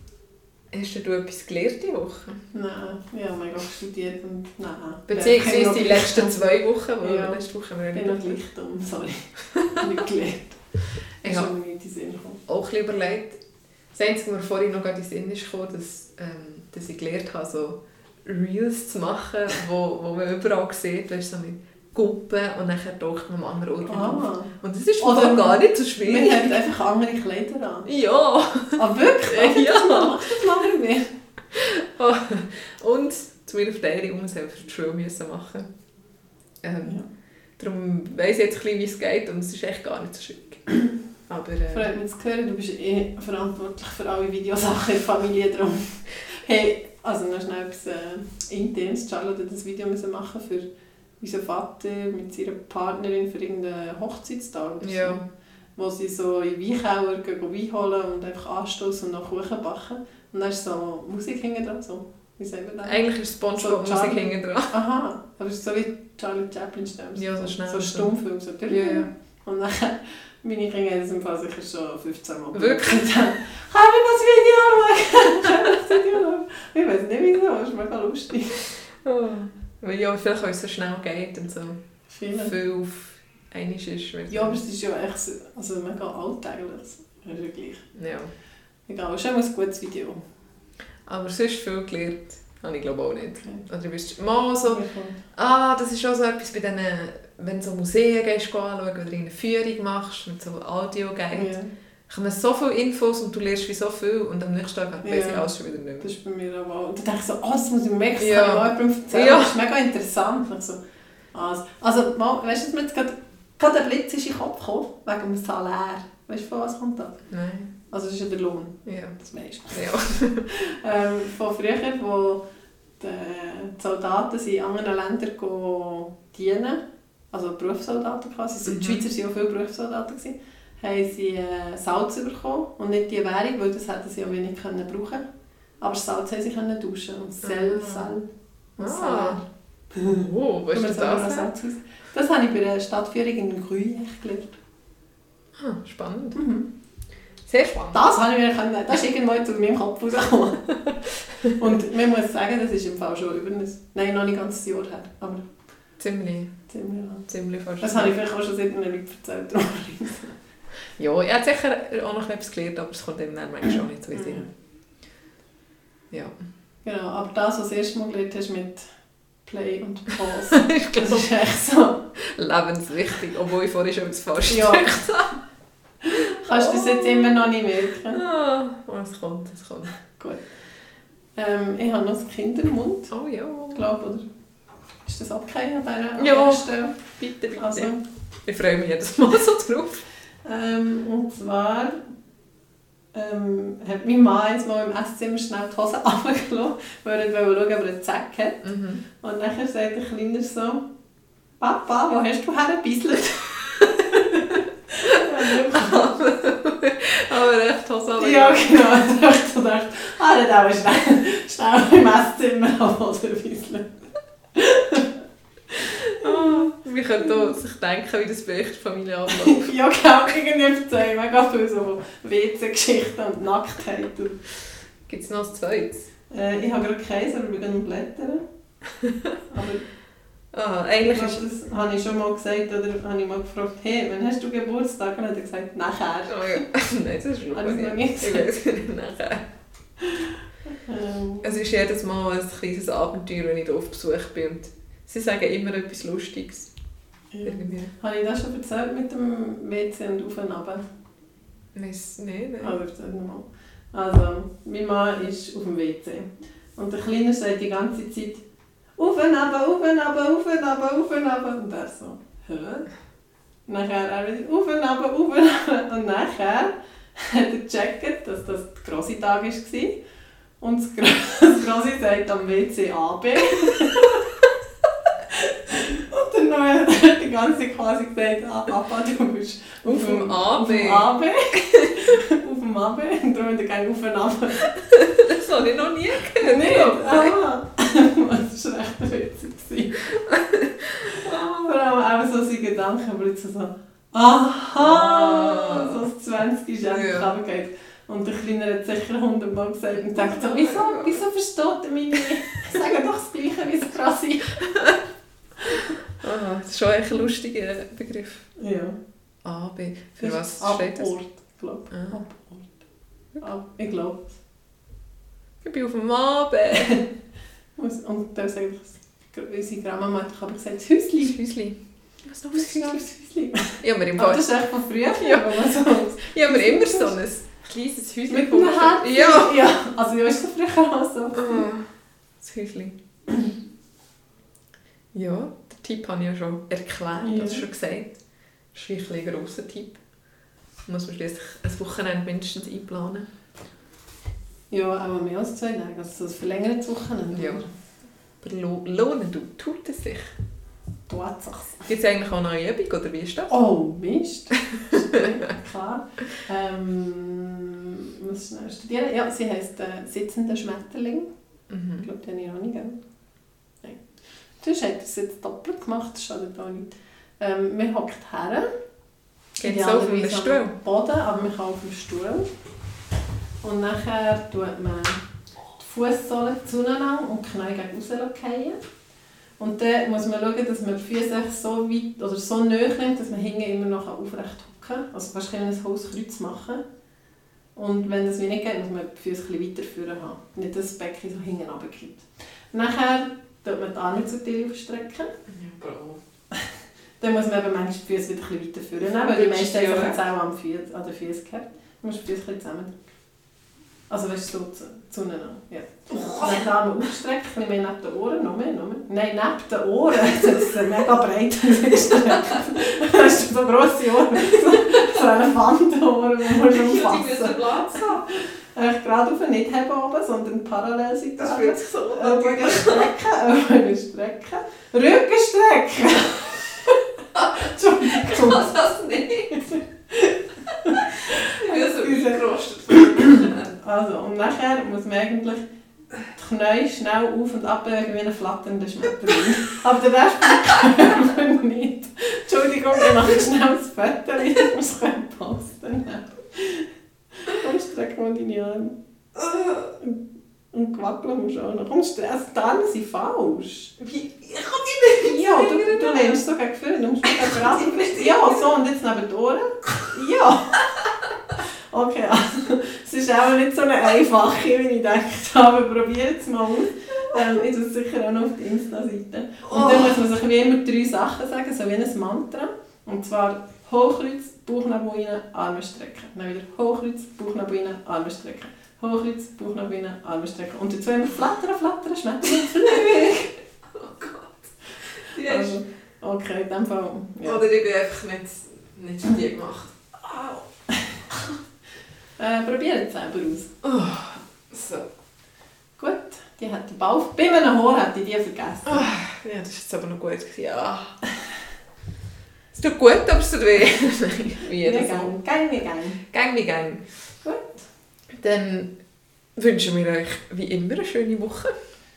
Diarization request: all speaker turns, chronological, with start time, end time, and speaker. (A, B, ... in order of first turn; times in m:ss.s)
0:00.7-0:02.4 A
0:02.5-0:06.4 B
0:05.1-0:08.4 A
0:07.0-0:10.6 B
0:09.5-0:10.0 A
0:11.2-0:11.5 A
0:11.2-0:12.4 B
0:12.5-0:13.4 A
0:13.9-0:26.7 A
0:23.8-0:27.9 B
0:27.8-0:30.4 A
0:28.7-0:31.1 B
0:31.5-0:35.7 A
0:36.6-0:37.0 A
0:37.6-0:40.6 A
0:41.3-0:41.9 A
0:41.7-0:50.6 B
0:51.2-0:55.2 B
0:54.8-0:55.2 A
0:55.8-1:03.0 B
1:02.8-1:04.8 A
1:03.6-1:18.7 B
1:07.2-1:08.1 A
1:08.7-1:09.1 A
1:12.5-1:13.2 A
1:19.0-1:21.8 A
1:22.1-1:22.5 B
1:22.3-1:24.6 A
1:24.3-1:27.9 B
1:27.9-1:28.3 A
1:28.9-1:30.2 B
1:31.0-1:41.5 A
1:33.4-1:33.6 B
1:34.6-1:35.2 B
1:41.3-1:41.7 B
1:42.1-1:46.1 A
1:45.0-1:50.8 B
1:48.2-1:49.6 A
1:51.3-1:57.2 B
1:57.3-1:57.7 A
1:57.9-2:02.4 B
1:58.8-1:59.2 A
1:59.7-2:00.5 A
2:03.0-2:06.8 B
2:07.3-2:15.2 B
2:08.6-2:09.0 A
2:15.8-2:24.6 B
2:17.4-2:18.1 A
2:18.8-2:19.4 A
2:20.0-2:21.5 A
2:25.5-2:26.4 A
2:26.3-2:26.7 B
2:27.4-2:28.2 A
2:27.9-2:30.8 B
2:30.8-2:31.5 A
2:31.4-2:35.5 B
2:36.0-2:36.5 A
2:36.7-2:37.3 B
2:37.3-2:38.1 A
2:37.8-2:40.3 B
2:41.0-2:44.4 A
2:44.1-2:44.4 B
2:46.8-2:48.9 B
2:49.4-2:52.1 B
2:50.3-2:51.3 A
2:52.2-2:55.3 A
2:54.5-2:55.2 B
2:56.0-2:58.2 B
2:56.1-2:57.5 A
2:58.1-2:59.9 A
3:00.2-3:00.4 B
3:01.4-3:03.1 B
3:03.1-3:03.8 A
3:03.7-3:04.3 B
3:05.0-3:07.0 B
3:06.2-3:07.9 A
3:07.6-3:08.0 B
3:08.4-3:10.0 A
3:10.4-3:12.0 B
3:13.1-3:20.8 B
3:18.6-3:19.0 A
3:21.6-3:26.2 B
3:23.8-3:24.4 A
3:25.0-3:29.2 A
3:28.2-3:33.9 B
3:34.5-3:35.1 B
3:35.7-3:36.7 B
3:35.8-3:39.7 A
3:39.3-3:44.4 B
3:45.1-3:46.1 A
3:46.3-3:48.4 B
3:48.9-3:49.4 A
3:49.5-3:49.8 B
3:50.5-3:51.4 A
3:51.0-3:56.6 B
3:56.3-3:59.4 A
3:57.5-3:58.5 B
4:00.0-4:01.5 B
4:01.4-4:06.7 A
4:07.3-4:10.8 B
4:07.4-4:07.9 A
4:11.7-4:12.8 A
4:12.6-4:18.4 B
4:19.0-4:22.9 B
4:23.7-4:30.0 B
4:30.6-4:34.2 B
4:33.8-4:34.0 A
4:35.3-4:44.8 B
4:39.8-4:41.1 A
4:44.7-4:47.4 A
4:46.4-4:50.1 B
4:50.1-4:51.8 A
4:51.0-5:04.7 B
4:54.8-4:56.0 A
4:56.9-4:57.3 A
5:00.0-5:01.2 A
5:04.6-5:05.0 A
5:05.7-5:08.5 A
5:08.6-5:09.0 B
5:09.4-5:11.1 A
5:10.2-5:12.8 B
5:11.9-5:12.2 A
5:13.4-5:14.4 B
5:15.6-5:17.0 A
5:17.8-5:21.4 B
5:21.2-5:23.0 A
5:22.5-5:27.2 B
5:23.8-5:24.4 A
5:25.2-5:29.6 A
5:28.3-5:31.7 B
5:31.3-5:31.8 A
5:32.4-5:33.0 A
5:35.1-5:38.1 A
5:37.2-5:37.6 B
5:38.7-5:40.0 A
5:40.8-5:43.3 A
5:44.7-5:47.7 B
5:47.3-5:47.6 A
5:48.4-5:50.3 A
5:51.1-5:51.9 B
5:51.8-5:53.5 A
5:53.5-6:01.3 B
5:54.7-5:55.2 A
6:01.7-6:02.0 A
6:02.0-6:03.0 B
6:04.6-6:08.7 B
6:09.6-6:10.7 A
6:09.6-6:12.5 B
6:13.6-6:15.2 B
6:15.8-6:18.8 B
6:19.6-6:26.8 B
6:27.8-6:35.3 B
6:35.5-6:36.2 A
6:37.2-6:42.9 B
6:39.0-6:40.2 A
6:44.1-7:08.7 B
6:46.1-6:46.7 A
6:52.0-6:52.6 A
6:54.5-6:55.2 A
6:56.6-6:58.2 A
7:01.4-7:03.1 A
7:07.3-7:09.6 A
7:09.5-7:15.6 B
7:10.7-7:13.7 A
7:16.3-7:29.0 B
7:20.6-7:21.2 A
7:29.4-7:29.9 A
7:30.7-7:34.0 B
7:34.0-7:36.4 A
7:35.2-7:40.8 B
7:37.2-7:38.7 A
7:41.9-8:03.5 B
7:49.6-7:50.1 A
8:02.5-8:05.8 A
8:05.3-8:07.6 B
8:07.4-8:10.6 A
8:12.4-8:13.7 B
8:13.8-8:15.1 A
8:16.0-8:19.1 B
8:18.8-8:21.2 A
8:22.7-8:25.4 A
8:24.7-8:26.2 B
8:26.3-8:27.1 A
8:27.4-8:27.8 B
8:28.3-8:28.9 A
8:29.6-8:31.8 A